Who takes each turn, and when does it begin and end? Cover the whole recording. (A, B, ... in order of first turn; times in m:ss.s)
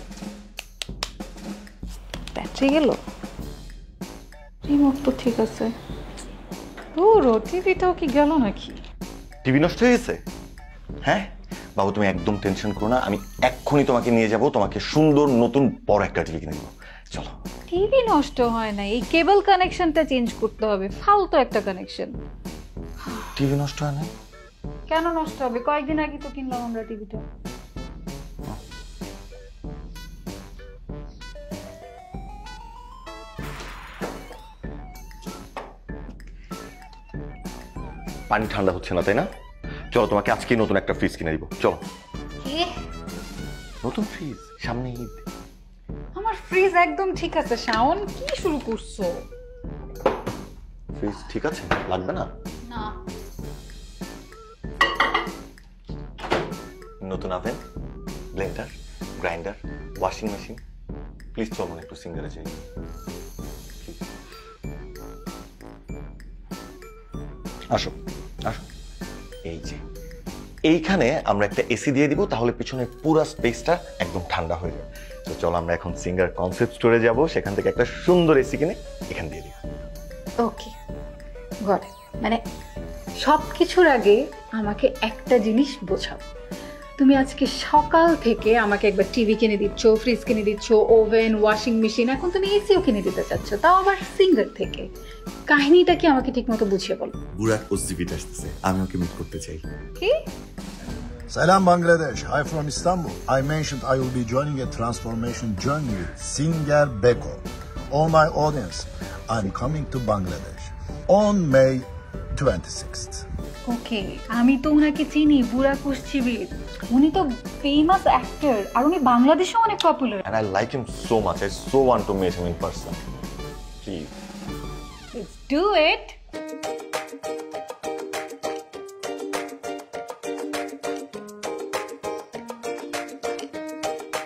0:02.3-0:03.0 A
0:04.7-0:05.7 A
0:07.0-0:08.8 A
0:09.4-0:10.2 B
0:11.0-0:17.3 B
0:17.7-0:22.2 A
0:23.4-0:24.1 B
0:24.9-0:27.2 A
0:38.3-0:39.3 B
0:39.9-0:41.8 B
0:42.4-0:42.8 A
0:43.8-0:45.2 B
0:46.1-0:49.2 A
0:51.0-0:52.3 B
0:52.7-0:53.0 A
0:57.0-0:57.6 B
0:58.3-1:00.6 B
1:01.3-1:02.6 B
1:09.5-1:09.8 B
1:10.7-1:19.6 B
1:20.4-1:20.7 A
1:21.7-1:22.4 A
1:23.2-1:26.2 A
1:27.0-1:34.9 A
1:35.5-1:37.2 A
1:37.4-1:39.5 B
1:38.3-1:39.6 C
1:40.0-1:40.3 A
1:41.3-1:47.4 C
1:47.9-1:53.2 C
1:53.7-2:00.2 A
2:00.2-2:03.0 B
2:03.8-2:04.1 B
2:05.1-2:06.2 A